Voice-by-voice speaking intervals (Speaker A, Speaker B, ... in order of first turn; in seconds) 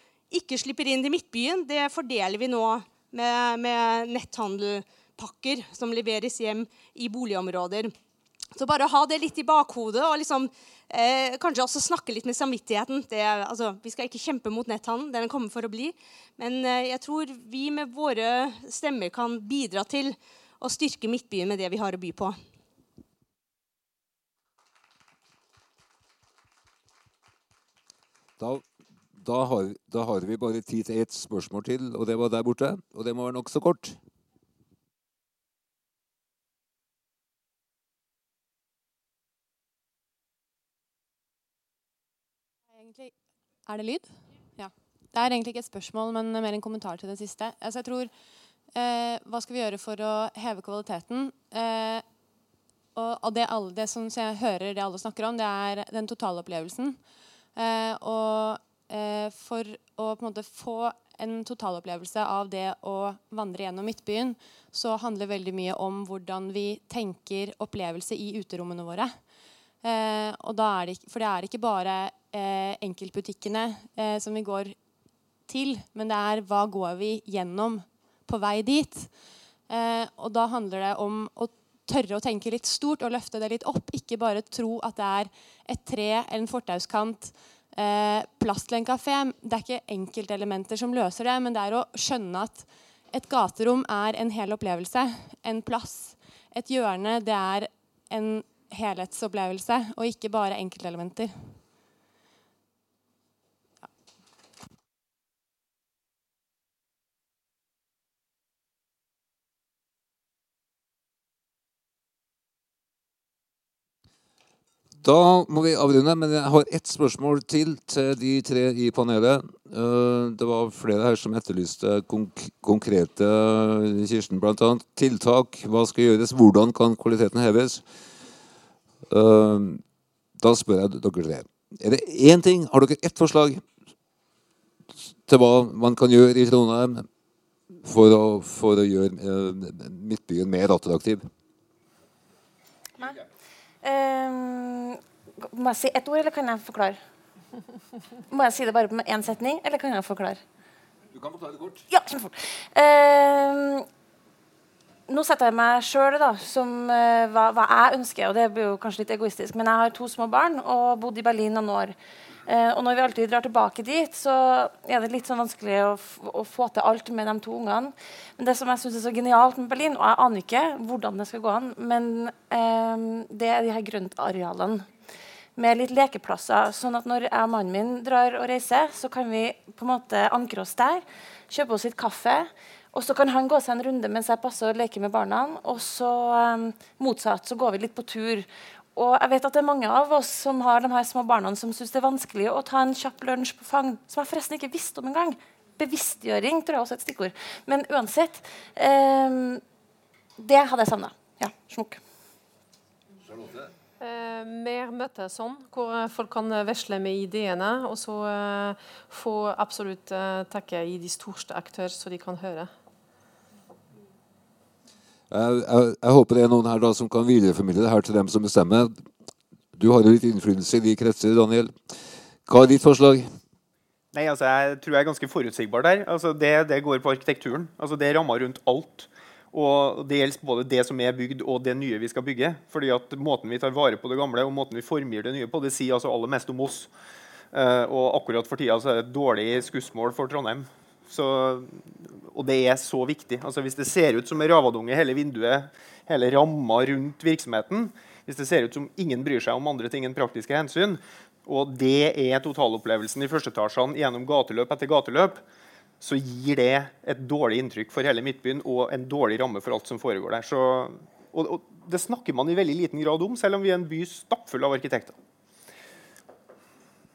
Speaker A: 0.3-7.9, 8.5-22.4
Speaker B: 29.2-34.0, 115.0-127.8, 129.1-129.8, 130.4-133.6, 135.3-137.1, 137.8-141.2, 151.1-151.8, 203.3-203.7, 215.3-218.9, 219.8-221.7, 222.5-223.3
Speaker C: 42.8-43.1, 43.7-44.0, 44.6-48.1, 48.8-52.0, 53.0-56.9, 57.6-69.1, 69.8-74.7, 75.5-79.1, 79.7-101.3
Speaker D: 143.8-147.0, 148.3-150.4, 151.9-153.8, 155.1-161.9, 162.4-174.9, 175.6-199.6, 200.4-202.0
Speaker E: 204.0-212.7
Speaker F: 224.1-236.9, 237.5-255.4, 256.0-265.1